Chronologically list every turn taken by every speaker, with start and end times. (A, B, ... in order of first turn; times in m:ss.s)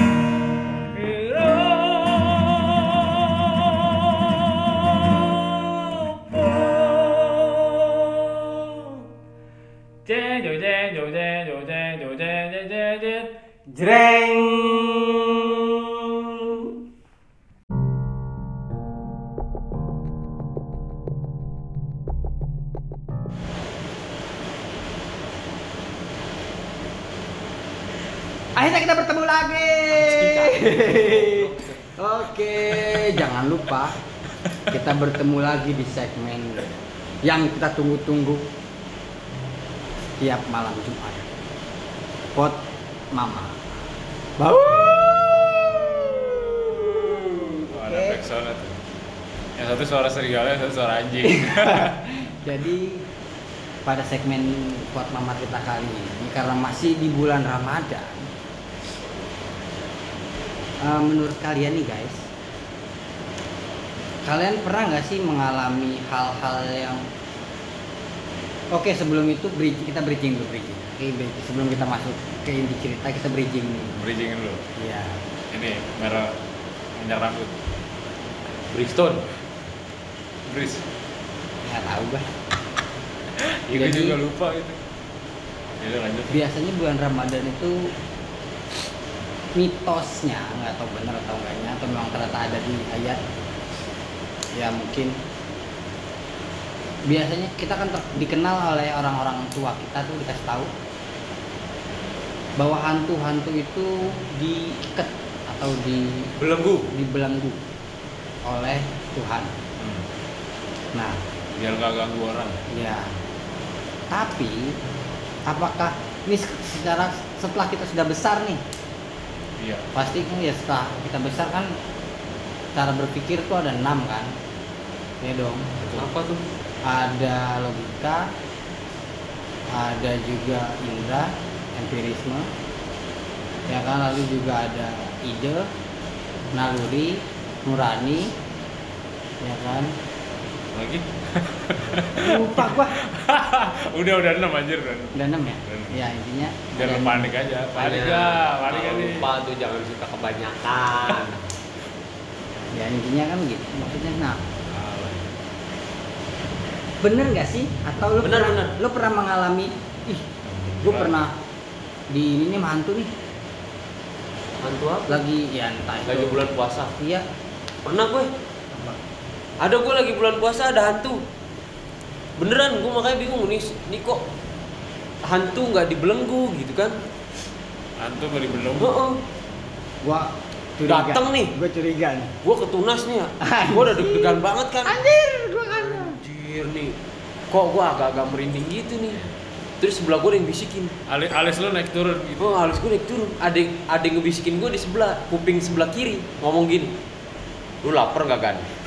0:00.5-0:09.0 A
0:10.0-0:16.7 A
0:28.6-0:34.0 B
0:29.9-0:31.8 C
0:34.7-0:36.7 B
0:37.2-0:38.5 B
0:40.2-0:41.3 B
0:43.1-0:43.6 B
0:44.4-0:48.2 B
0:47.0-0:48.8 A
0:49.6-0:52.0 A
0:51.2-0:53.1 B
0:53.8-0:58.3 B
1:00.8-1:02.3 B
1:04.2-1:07.1 B
1:08.7-1:14.0 B
1:14.0-1:14.6 A
1:14.8-1:15.2 B
1:15.5-1:16.4 A
1:17.0-1:17.7 A
1:18.7-1:19.2 C
1:20.5-1:20.8 A
1:21.6-1:22.3 B
1:23.3-1:24.8 A
1:23.7-1:24.2 B
1:25.8-1:26.4 A
1:26.3-1:27.9 B
1:29.6-1:33.2 B
1:34.6-1:35.2 B
1:37.0-1:40.7 B
1:42.6-1:46.3 B
1:46.4-1:46.9 C
1:46.9-1:47.6 B
1:48.4-1:49.5 B
1:49.8-1:50.1 A
1:50.9-1:51.2 B
1:51.5-1:52.6 A
1:52.7-1:53.1 B
1:54.1-1:54.8 B
1:55.5-1:58.6 B
1:59.6-1:59.9 A
2:00.0-2:01.8 B
2:02.8-2:04.4 B
2:05.2-2:05.7 B
2:05.8-2:06.1 A
2:05.9-2:06.4 C
2:06.9-2:08.4 B
2:09.7-2:12.5 B
2:13.7-2:15.7 B
2:16.5-2:18.4 B
2:19.4-2:20.0 B
2:20.7-2:26.0 A
2:22.2-2:23.0 B
2:25.2-2:27.3 B
2:26.7-2:29.3 A
2:27.8-2:31.5 C
2:32.7-2:34.4 B
2:34.7-2:35.3 A
2:37.0-2:40.3 B
2:38.2-2:38.8 C
2:40.4-2:41.3 A
2:40.8-2:41.4 B
2:42.1-2:43.1 B
2:44.6-2:45.2 C
2:45.1-2:47.2 B
2:46.1-2:46.9 C
2:47.8-2:48.3 C
2:48.7-2:49.0 B
2:49.6-2:51.2 C
2:52.4-2:54.2 C
2:55.2-2:57.0 C
2:58.0-2:59.0 A
2:58.8-2:59.2 C
3:00.0-3:02.3 B
3:00.9-3:01.5 C
3:02.4-3:05.0 C
3:03.4-3:06.2 B
3:05.7-3:07.0 C
3:07.5-3:09.3 C
3:09.8-3:10.9 C
3:11.1-3:12.6 A
3:12.4-3:17.0 C
3:17.8-3:18.7 C